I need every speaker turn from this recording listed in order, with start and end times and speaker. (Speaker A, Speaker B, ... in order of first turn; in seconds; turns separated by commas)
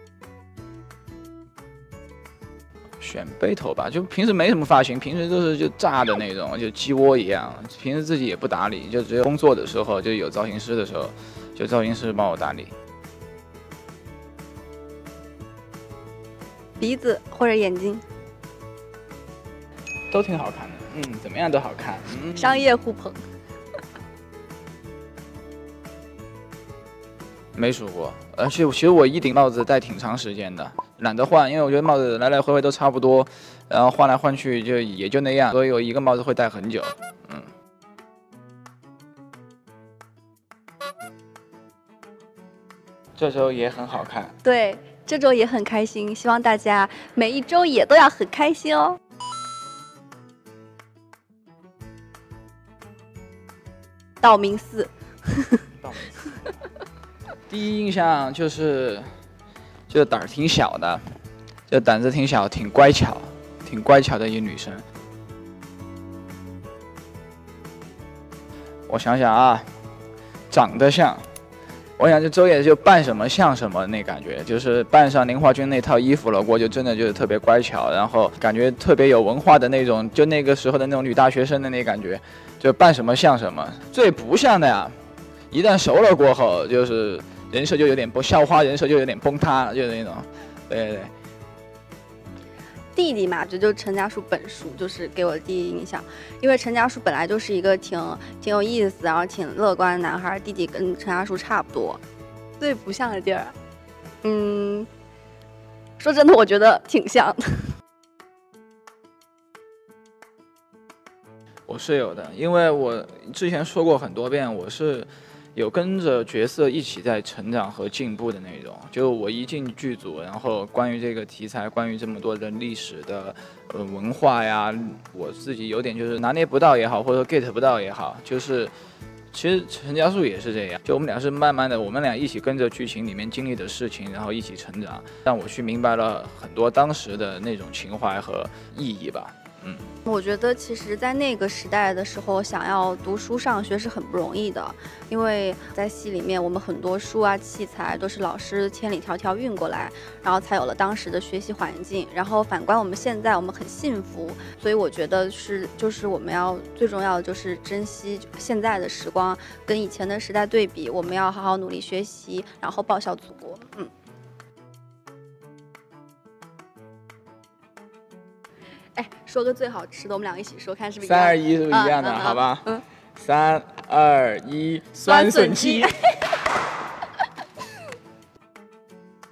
Speaker A: 3.0-12.7, Speaker B: 16.8-18.0, Speaker A: 20.1-22.6, Speaker B: 22.4-23.2, Speaker A: 27.5-37.5, Speaker A: 43.1-44.3, Speaker B: 44.4-49.0, Speaker B: 54.2-55.6, Speaker A: 55.8-56.3, Speaker A: 57.5-59.1, Speaker A: 59.9-61.2, Speaker A: 61.7-64.8, Speaker A: 68.9-69.7, Speaker A: 70.5-71.2, Speaker A: 72.0-84.9, Speaker A: 85.5-91.1, Speaker B: 92.9-102.0, Speaker B: 102.6-103.5, Speaker B: 104.2-104.9, Speaker B: 106.0-107.7, Speaker A: 111.7-128.7, Speaker A: 129.3-139.9, Speaker B: 140.1-163.9, Speaker B: 168.9-172.8, Speaker A: 171.0-175.9, Speaker B: 175.0-176.3